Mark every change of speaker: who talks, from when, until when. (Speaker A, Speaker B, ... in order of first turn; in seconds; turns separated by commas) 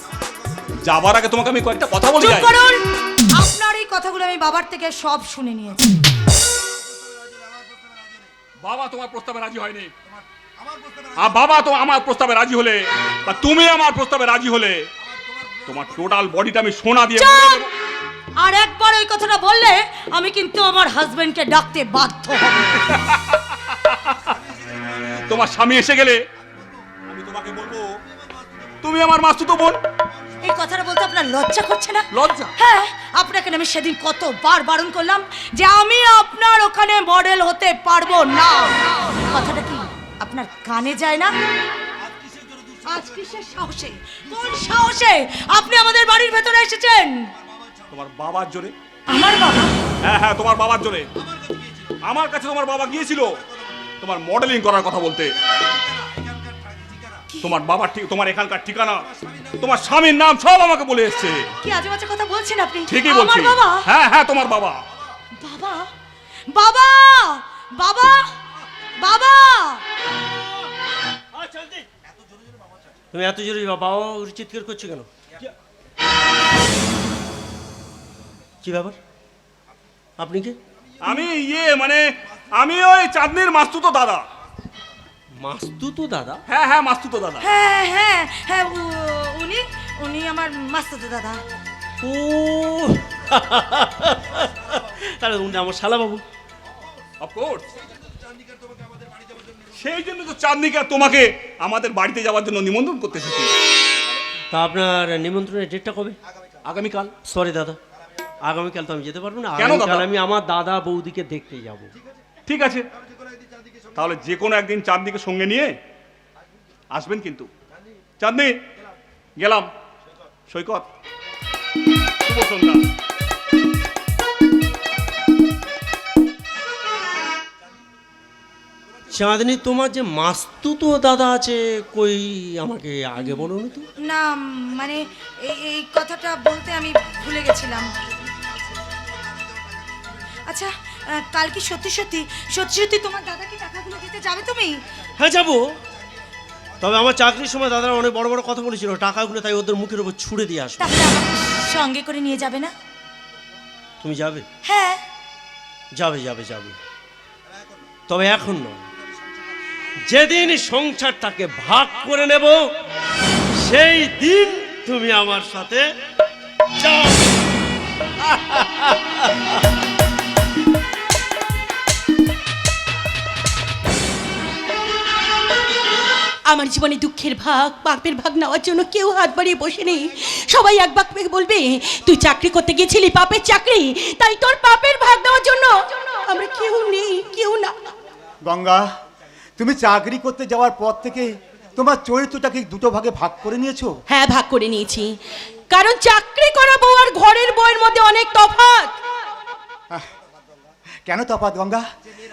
Speaker A: 0.8-2.5, Speaker B: 2.2-2.8, Speaker B: 3.3-6.0, Speaker A: 8.6-9.9, Speaker A: 11.2-14.8, Speaker A: 15.7-17.7, Speaker B: 17.2-17.7, Speaker B: 18.4-22.9, Speaker A: 22.9-24.2, Speaker A: 25.3-26.2, Speaker A: 27.1-28.0, Speaker A: 28.8-29.8, Speaker B: 30.4-41.3, Speaker A: 32.1-32.5, Speaker B: 42.9-47.3, Speaker A: 47.9-48.7, Speaker B: 49.1-49.7, Speaker A: 50.0-51.1, Speaker A: 52.0-53.4, Speaker A: 54.0-55.3, Speaker A: 57.4-59.0, Speaker A: 59.6-61.4, Speaker B: 61.6-63.8, Speaker A: 62.9-64.8, Speaker B: 65.4-65.9, Speaker B: 66.5-68.3, Speaker B: 69.0-69.8, Speaker C: 71.3-71.8, Speaker C: 73.1-75.4, Speaker C: 78.6-79.0, Speaker C: 80.2-80.5, Speaker A: 81.0-84.2, Speaker C: 85.4-86.4, Speaker A: 86.5-87.5, Speaker B: 87.4-91.4, Speaker C: 92.0-96.2, Speaker A: 97.2-97.6, Speaker A: 99.8-103.5, Speaker C: 104.5-106.2, Speaker A: 106.6-107.1, Speaker C: 107.2-107.8, Speaker C: 108.5-111.9, Speaker A: 109.6-110.1, Speaker A: 112.5-112.8, Speaker A: 113.9-115.7, Speaker A: 116.9-117.5, Speaker A: 118.2-118.6, Speaker A: 119.4-119.7, Speaker A: 120.5-120.8, Speaker A: 122.2-122.8, Speaker C: 129.1-133.9, Speaker B: 134.0-137.9, Speaker B: 140.5-144.8, Speaker C: 145.2-145.6, Speaker C: 146.8-151.0, Speaker B: 150.8-152.7, Speaker C: 154.0-154.4, Speaker B: 154.6-155.0, Speaker C: 155.9-156.8, Speaker C: 158.1-158.8, Speaker C: 160.1-162.6, Speaker C: 163.6-165.8, Speaker C: 166.8-167.4, Speaker C: 168.2-169.4, Speaker D: 176.5-187.7, Speaker E: 188.4-188.8, Speaker E: 189.6-194.0, Speaker D: 194.1-195.2, Speaker D: 195.7-199.0, Speaker E: 201.1-201.8